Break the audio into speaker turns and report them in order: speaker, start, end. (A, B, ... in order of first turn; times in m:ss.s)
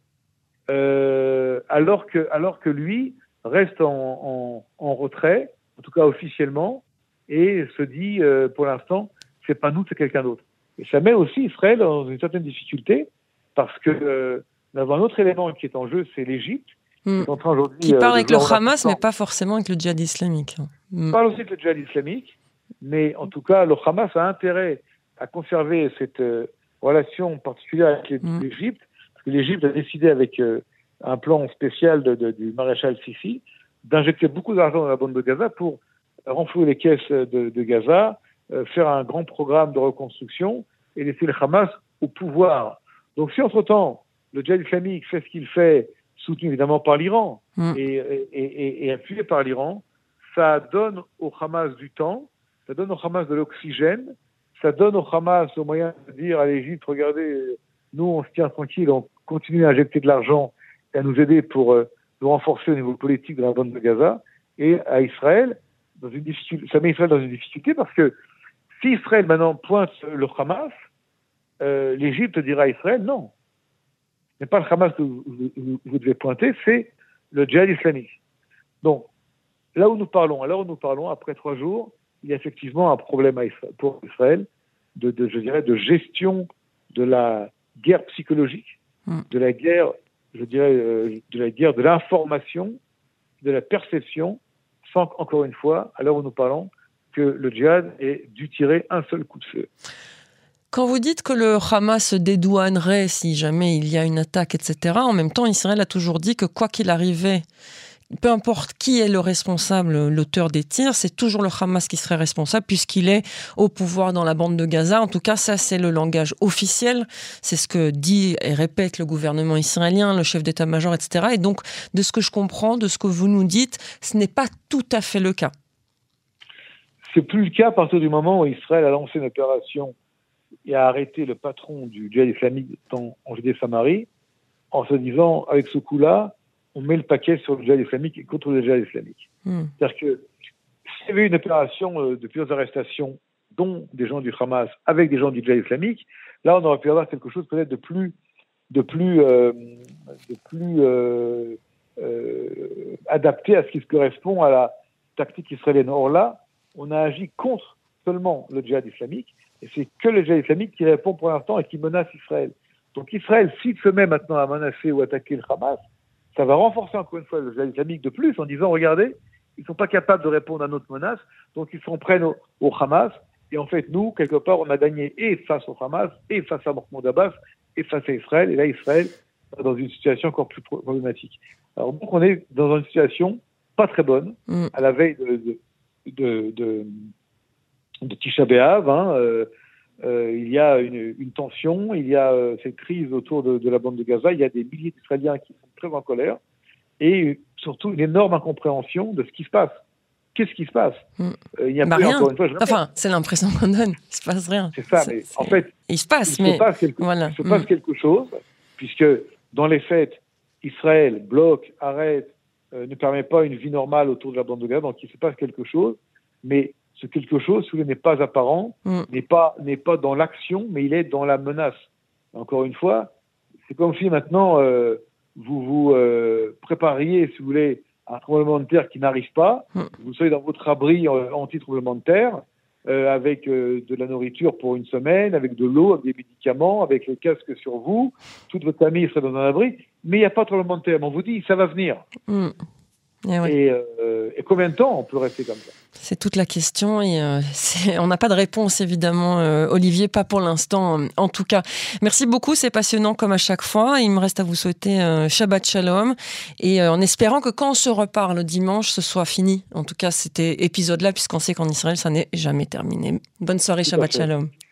0:00.7-0:19.0 A
0:17.0-0:17.3 B
0:17.8-0:21.2 B
0:21.1-1:08.1 A
1:08.8-1:10.7 A
1:11.6-1:13.3 A
1:14.4-1:18.2 A
1:18.8-1:19.1 A
1:19.7-1:28.8 A
1:29.3-1:32.8 A
1:33.4-1:39.7 A
1:40.7-1:47.4 B
1:48.1-2:05.5 B
2:07.0-2:09.9 A
2:10.6-2:14.1 A
2:14.7-2:19.2 A
2:19.4-2:19.7 B
2:19.8-2:20.2 A
2:20.9-2:28.1 A
2:28.7-2:29.8 A
2:30.3-2:45.8 A
2:46.3-3:07.0 A
3:08.0-3:09.5 A
3:10.0-3:16.4 A
3:17.0-3:19.7 A
3:20.3-3:21.0 A
3:21.2-3:27.6 B
3:21.6-3:22.8 A
3:24.7-3:25.7 A
3:26.3-3:41.7 A
3:42.3-3:43.1 A
3:43.7-4:02.0 A
4:02.3-4:02.6 B
4:03.2-4:03.5 B
4:03.4-4:05.7 A
4:06.0-4:24.5 B
4:23.9-4:24.3 A